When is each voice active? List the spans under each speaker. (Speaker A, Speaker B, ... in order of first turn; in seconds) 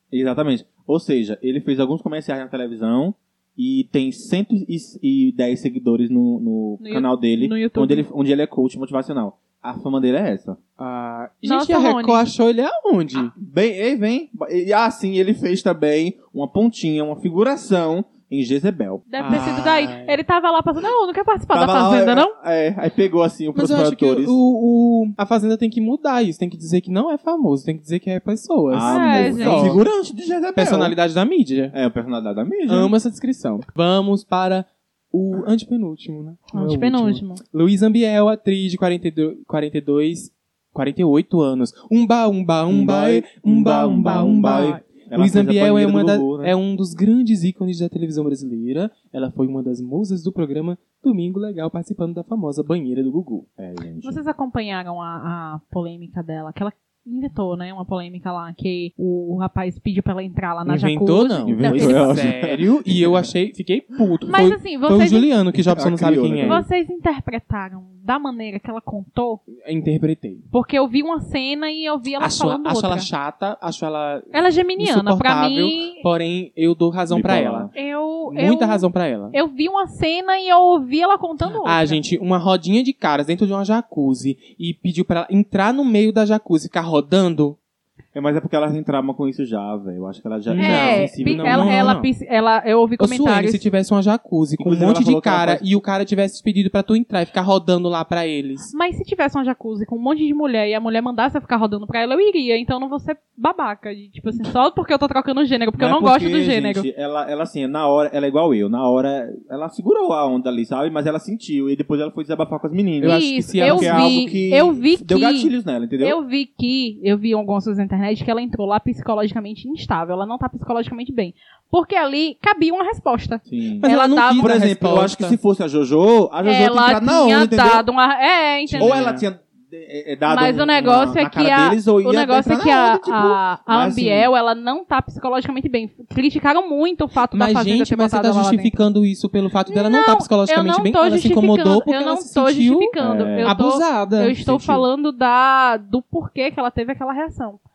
Speaker A: 0.1-10.6, 13.2-19.6, 21.5-24.4, 28.7-31.0, 31.7-32.9, 42.7-46.5, 53.6-54.2, 61.4-63.3, 65.5-66.7, 77.1-77.7, 88.1-92.0, 94.6-95.6, 105.8-116.2, 123.5-127.8, 128.8-134.3, 143.0-143.5, 144.4-144.8
Speaker B: 6.8-8.0, 11.4-12.2, 19.1-22.3, 28.8-29.8, 36.5-37.4, 44.1-44.8, 54.0-62.3, 64.3-65.3, 66.4-69.4, 70.5-73.1, 74.3-76.0, 77.7-82.0, 90.6-93.6, 98.7-106.8, 113.0-124.5, 126.4-129.0, 130.3-138.8, 139.7-147.6
Speaker C: 10.8-13.3, 19.2-20.2, 23.5-29.8, 30.5-31.7, 32.7-53.5, 60.6-66.6, 69.6-70.4, 72.2-77.7, 78.3-79.3, 81.6-87.6, 90.5-92.1, 93.0-98.7, 113.0-114.2, 123.8-125.4, 128.7-129.2, 137.3-144.7